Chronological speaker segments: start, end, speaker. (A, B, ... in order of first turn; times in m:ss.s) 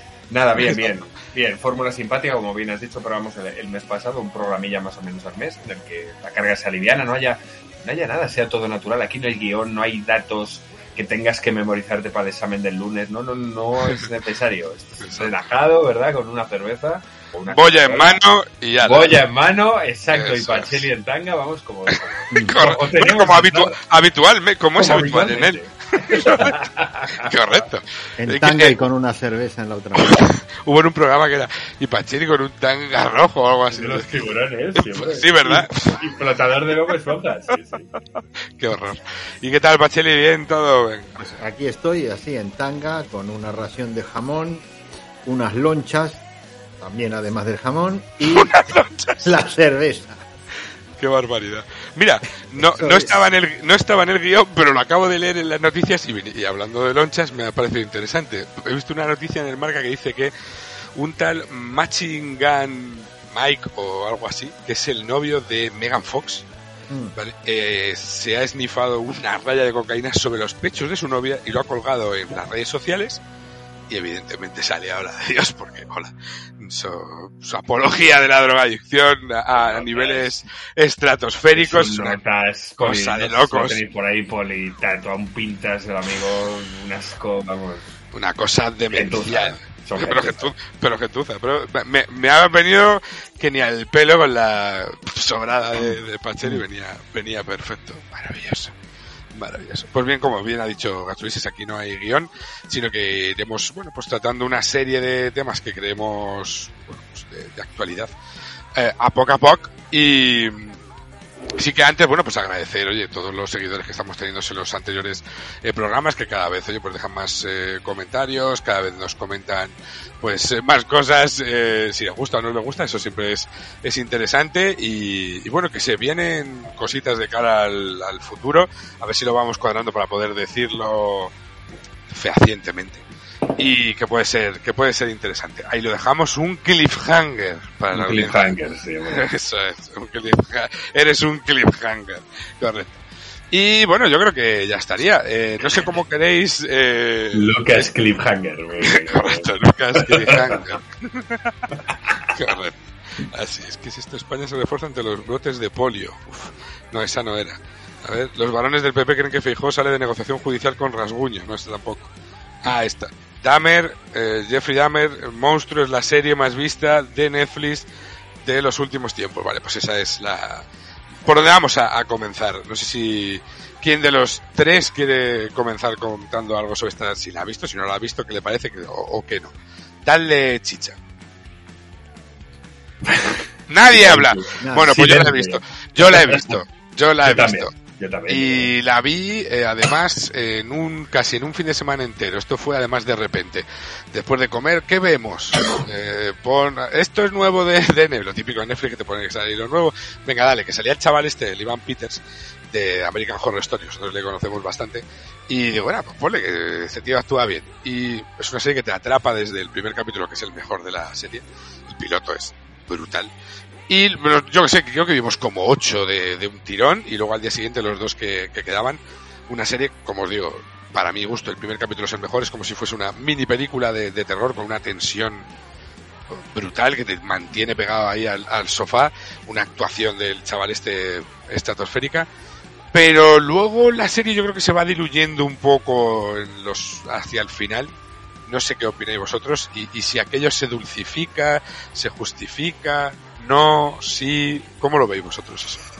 0:00.3-0:18.2 A
0:00.6-0:00.9 B
0:15.0-0:15.3 B
0:17.5-0:19.2 B
0:18.8-0:23.8 A
0:20.1-0:20.9 B
0:22.0-0:26.6 B
0:22.3-0:22.6 C
0:24.8-0:27.6 A
0:27.2-0:28.8 B
0:28.2-0:30.3 C
0:30.0-0:34.1 B
0:33.7-0:37.9 A
0:34.8-0:36.1 B
0:38.6-0:41.2 B
0:41.2-0:44.6 C
0:45.2-0:46.2 C
0:46.8-0:48.5 C
0:48.2-0:49.4 B
0:49.2-0:50.2 C
0:51.0-1:00.3 B
0:52.6-0:53.2 C
1:01.0-1:06.4 B
1:06.9-1:07.1 C
1:07.2-1:13.2 B
1:13.9-1:22.2 B
1:19.5-1:20.5 A
1:21.5-1:27.8 A
1:22.8-1:23.8 B
1:28.1-1:38.7 B
1:28.9-1:30.5 A
1:39.3-1:48.1 B
1:48.7-1:50.8 B
1:51.6-2:11.3 B
2:12.1-2:13.0 B
2:13.6-2:18.5 B
2:17.9-2:19.2 A
2:19.1-2:23.0 B
2:23.5-2:27.9 B
2:27.3-2:30.6 A
2:28.8-2:31.5 B
2:32.3-2:42.1 B
2:42.6-2:47.8 B
2:48.4-2:50.6 B
2:51.2-2:59.5 B
3:00.0-3:01.0 B
3:03.0-3:06.5 A
3:03.7-3:07.7 B
3:04.6-3:05.0 C
3:07.2-3:08.7 A
3:08.3-3:22.2 B
3:22.7-3:33.3 B
3:33.9-3:45.4 B
3:46.3-3:52.3 B
3:52.9-3:57.9 B
3:58.5-4:05.8 B